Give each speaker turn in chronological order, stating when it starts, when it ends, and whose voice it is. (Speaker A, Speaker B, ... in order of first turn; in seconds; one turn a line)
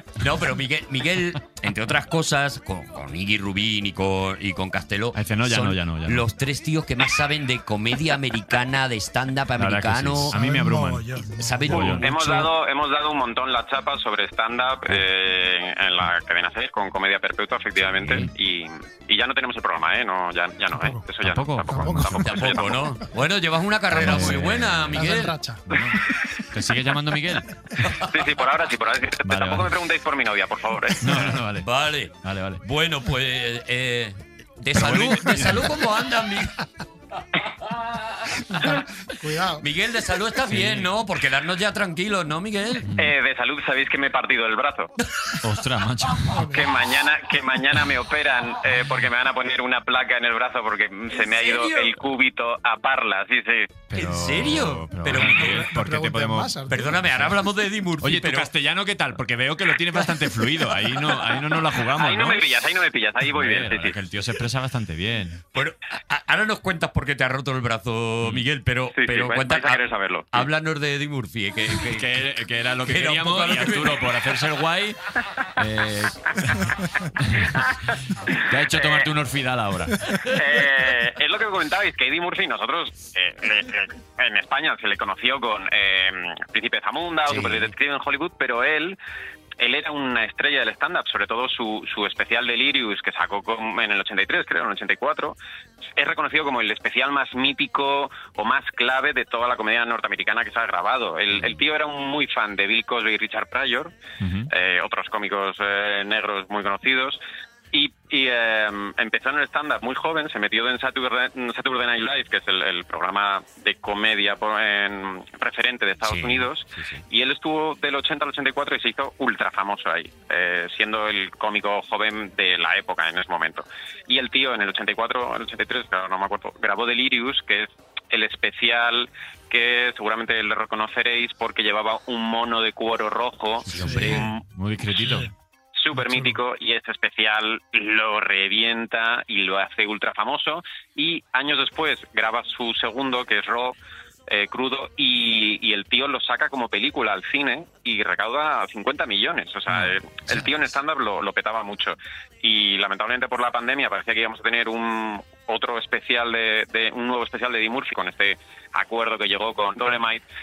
Speaker A: 0.2-10.4
Speaker B: 5.1-6.2
Speaker B: 9.6-11.1
Speaker C: 10.3-12.1
Speaker A: 11.4-12.5
Speaker B: 11.7-12.1
Speaker D: 12.0-22.8
Speaker B: 18.0-18.3
Speaker C: 20.8-21.0
Speaker B: 21.2-22.5
Speaker C: 21.7-22.2
Speaker A: 22.2-25.3
Speaker C: 23.9-25.6
Speaker B: 23.9-25.0
Speaker B: 25.7-27.5
Speaker A: 27.8-28.1
Speaker D: 28.1-31.3
Speaker B: 29.2-29.7
Speaker B: 31.0-31.7
Speaker A: 31.5-36.6
Speaker B: 32.2-32.6
Speaker B: 34.7-35.8
Speaker C: 38.6-39.7
Speaker A: 39.6-42.9
Speaker B: 40.5-40.9
Speaker D: 43.0-44.9
Speaker B: 45.4-46.5
Speaker C: 46.3-46.7
Speaker D: 46.5-53.8
Speaker A: 51.3-52.0
Speaker B: 53.9-57.3
Speaker A: 53.9-55.7
Speaker C: 55.1-57.2
Speaker A: 56.7-58.5
Speaker B: 58.0-62.5
Speaker D: 61.8-64.0
Speaker B: 63.2-65.4
Speaker A: 65.5-72.3
Speaker D: 68.9-70.5
Speaker B: 71.7-75.0
Speaker A: 72.8-74.1
Speaker B: 75.6-77.6
Speaker B: 78.3-80.3
Speaker D: 78.7-79.1
Speaker D: 80.3-89.0
Speaker A: 87.3-87.7
Speaker D: 89.6-95.4
Speaker D: 96.0-104.0
Speaker B: 101.3-101.6
Speaker B: 104.2-104.5
Speaker D: 104.5-107.2
Speaker D: 107.7-134.4
Speaker A: 116.0-117.0
Speaker A: 133.7-134.3
Speaker B: 133.8-135.3
Speaker C: 133.9-134.2
Speaker C: 135.0-135.3
Speaker D: 135.7-143.8
Speaker C: 135.9-136.4
Speaker D: 144.3-160.2
Speaker B: 149.7-150.0